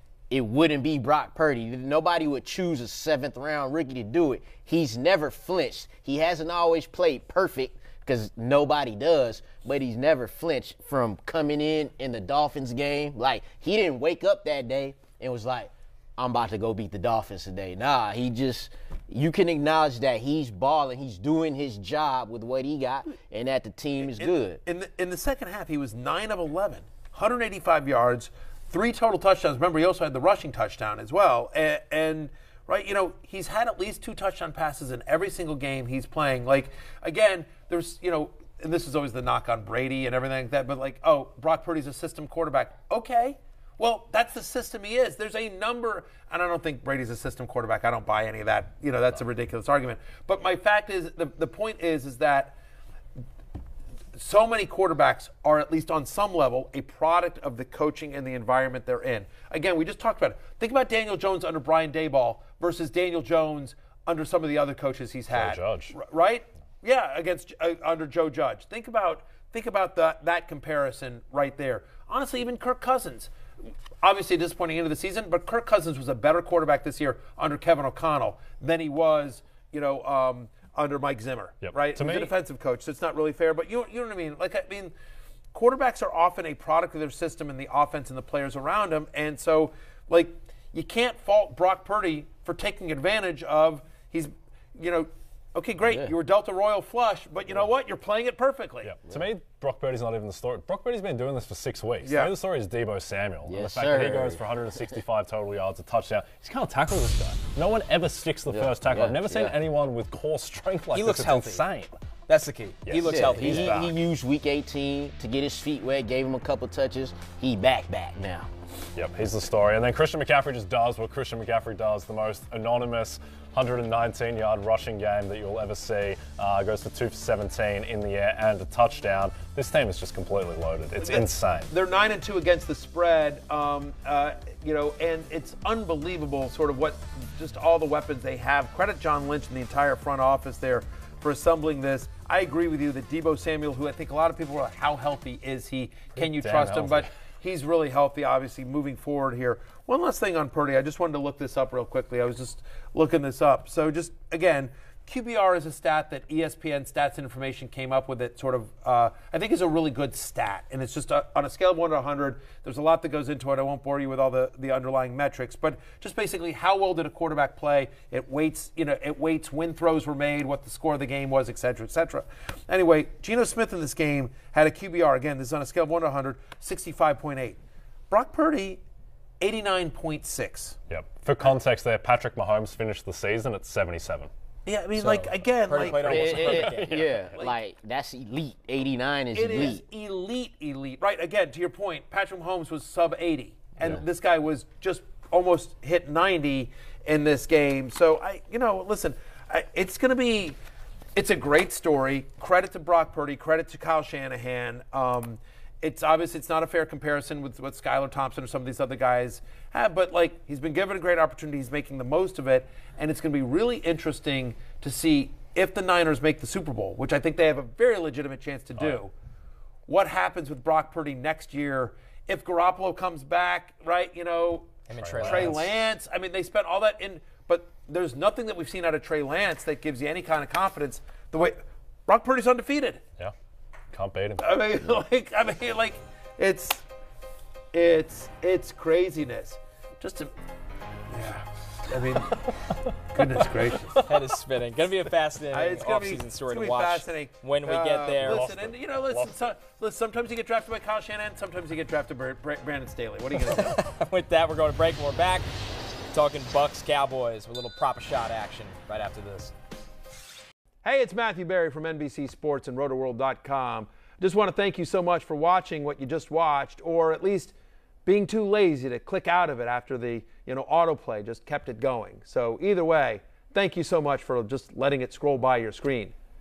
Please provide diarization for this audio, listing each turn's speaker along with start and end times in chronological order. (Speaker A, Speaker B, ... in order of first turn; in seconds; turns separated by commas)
Speaker A: 0.3-24.6, Speaker B: 24.0-52.5, Speaker B: 54.1-73.3, Speaker C: 65.3-65.9, Speaker B: 74.0-84.9, Speaker C: 81.6-82.3, Speaker B: 85.5-98.9, Speaker A: 95.9-96.1, Speaker C: 98.8-112.0, Speaker B: 102.0-102.3, Speaker A: 103.5-104.9, Speaker A: 108.5-109.5, Speaker D: 110.9-111.6, Speaker D: 112.3-113.8, Speaker C: 112.8-113.9, Speaker A: 113.0-118.5, Speaker C: 119.0-131.7, Speaker B: 131.0-178.8, Speaker C: 146.2-147.1, Speaker B: 179.4-180.8, Speaker C: 180.9-184.3, Speaker B: 184.7-187.6, Speaker D: 185.0-187.1, Speaker A: 185.8-189.8, Speaker B: 189.3-200.6, Speaker B: 201.2-219.1, Speaker B: 219.9-233.0, Speaker D: 224.9-225.9, Speaker C: 225.0-225.5, Speaker C: 233.9-234.4, Speaker B: 234.4-236.8, Speaker B: 237.7-240.3, Speaker B: 241.1-242.5, Speaker B: 243.1-244.0, Speaker D: 244.0-248.5, Speaker B: 245.5-253.8, Speaker C: 248.3-249.4, Speaker D: 253.4-255.5, Speaker D: 256.1-259.5, Speaker B: 260.8-267.5, Speaker B: 268.1-276.1